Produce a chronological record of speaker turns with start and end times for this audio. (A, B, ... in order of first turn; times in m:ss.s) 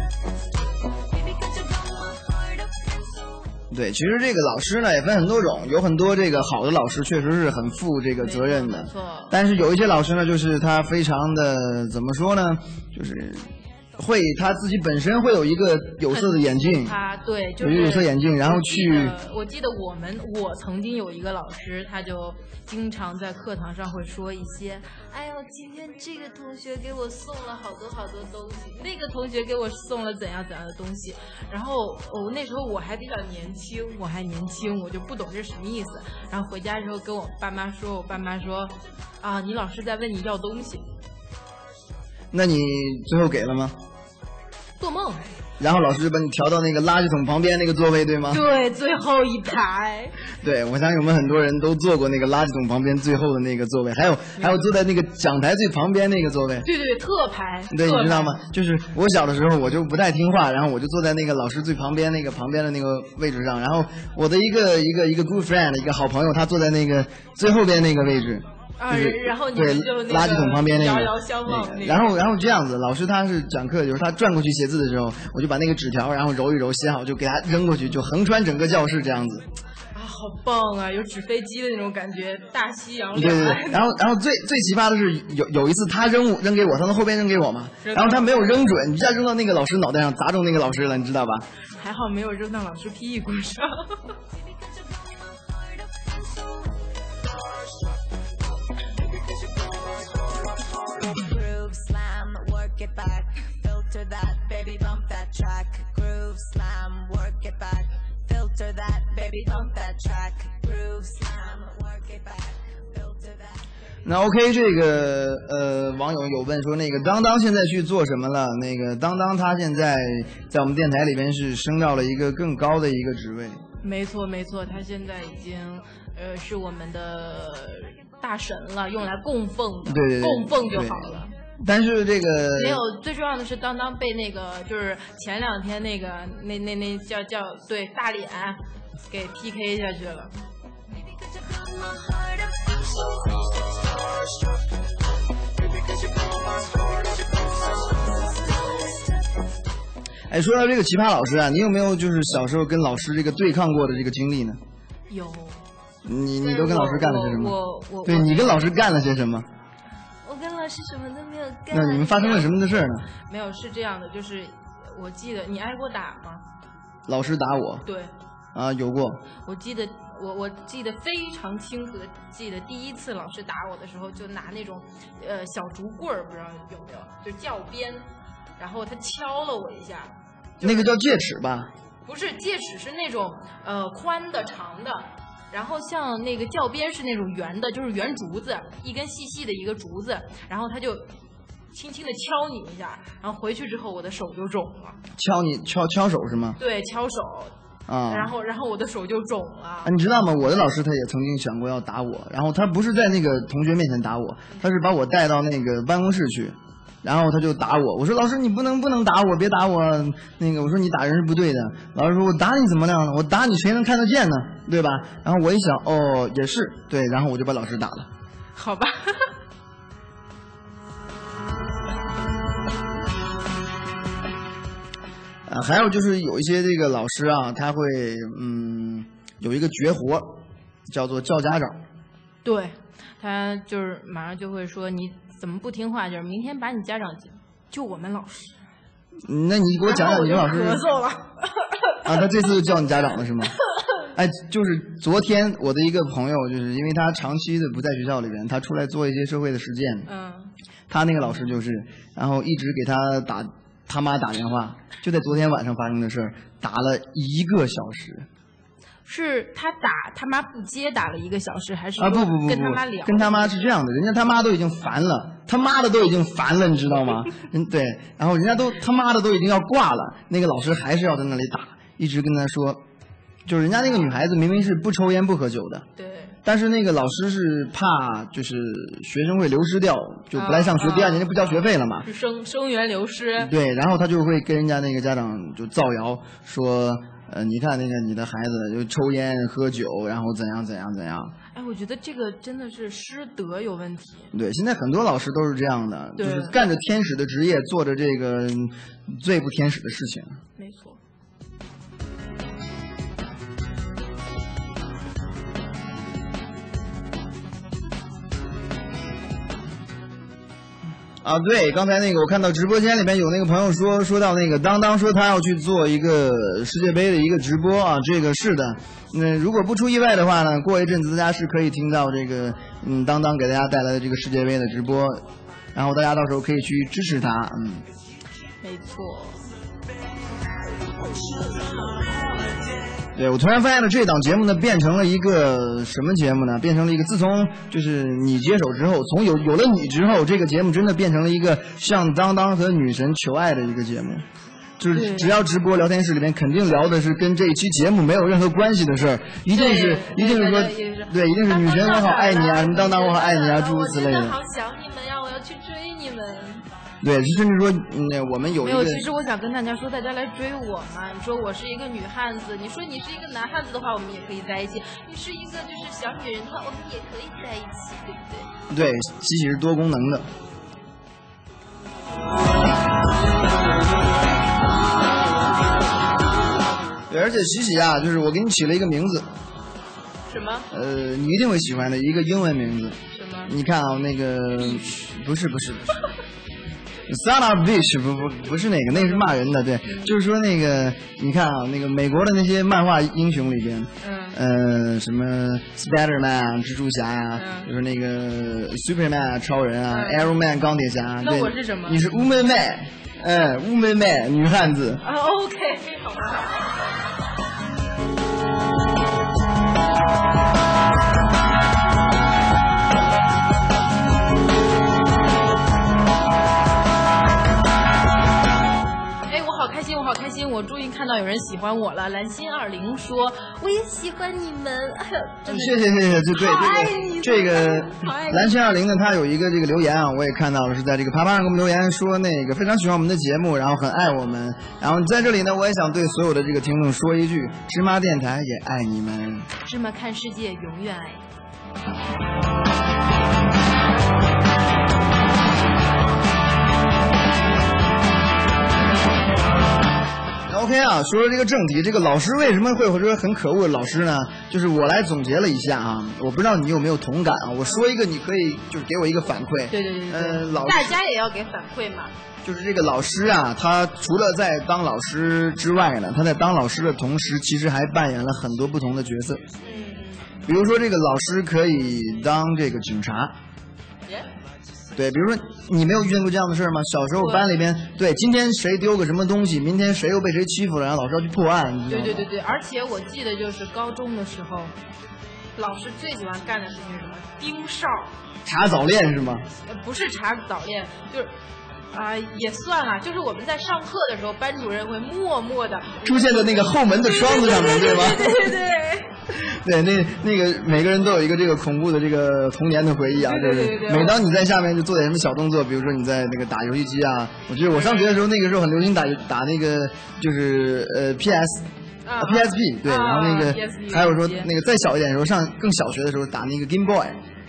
0:03.7-0:17.0 A
0:08.2-0:09.3 B
0:16.1-0:40.9 B
0:17.6-0:19.2 A
0:42.3-0:43.8 A
0:44.8-0:45.3 B
0:45.6-0:48.4 A
0:48.3-0:50.1 B
0:50.4-0:56.7 A
0:56.6-0:58.4 B
0:57.7-1:19.5 A
1:08.8-1:12.1 B
1:19.9-1:23.9 B
1:23.1-1:31.5 A
1:27.8-1:28.6 B
1:31.8-1:34.0 B
1:41.1-1:53.6 C
1:54.0-2:03.6 A
2:03.8-2:11.3 B
2:09.8-2:12.8 A
2:12.5-2:20.3 B
2:30.3-2:34.6 A
2:35.1-2:35.6 B
2:36.0-2:39.5 A
2:36.4-2:38.8 B
2:40.2-2:46.4 B
2:41.7-2:43.1 A
2:47.1-2:47.8 A
2:47.8-2:48.1 B
2:48.5-2:49.2 A
2:49.4-2:58.1 B
2:58.6-3:00.9 B
3:00.6-3:01.7 A
3:02.0-3:11.1 B
3:11.7-3:15.0 B
3:15.2-3:16.6 A
3:16.6-3:17.5 B
3:17.9-3:18.3 A
3:18.1-3:19.9 B
3:19.8-3:38.1 A
3:38.6-3:39.2 B
3:45.4-3:51.8 A
3:52.4-3:58.6 B
3:59.2-4:00.9 A
3:59.8-4:02.1 B
4:02.0-4:03.6 A
4:04.1-4:10.1 A
4:10.1-4:10.5 B
4:10.9-4:18.3 A
4:19.1-4:23.6 B
4:22.0-4:32.8 A
4:33.4-4:35.9 A
4:36.0-4:36.4 B
4:36.4-4:42.1 A
4:40.3-4:43.5 B
4:43.4-4:51.3 A
4:51.5-4:54.3 B
4:54.3-5:00.4 A
4:56.2-4:56.6 B
5:00.6-5:01.0 B
5:11.2-5:27.9 A
5:28.6-5:29.4 B
5:33.2-5:44.2 A
5:44.8-5:54.4 A
5:44.9-5:45.4 B
5:49.5-5:56.7 B
5:57.0-5:59.1 A
5:58.6-6:08.5 B
6:08.7-6:10.3 A
6:17.1-6:19.3 A
6:20.3-6:20.7 B
6:20.7-6:26.0 A
6:23.1-6:23.5 B
6:24.6-6:25.0 B
6:27.1-6:45.0 A
6:28.9-6:29.3 B
6:29.8-6:30.1 B
6:34.0-6:34.4 B
6:37.3-6:37.7 B
6:39.9-6:40.3 B
6:41.2-6:42.0 B
6:45.0-6:46.6 B
6:59.2-7:08.6 B
7:05.4-7:19.5 A
7:19.6-7:21.2 B
7:30.5-7:41.0 A
7:39.7-7:42.1 B
7:42.4-7:49.4 A
7:49.6-7:50.3 B
7:50.4-7:53.4 A
7:54.9-8:02.3 A
7:57.2-7:57.5 B
8:01.9-8:04.7 B
8:05.6-8:08.1 B
8:08.4-8:09.5 A
8:09.7-8:11.3 B
8:11.9-8:19.1 B
8:16.0-8:18.6 A
8:19.3-8:37.2 A
8:23.2-8:24.2 B
8:27.7-8:28.3 B
8:32.0-8:34.5 B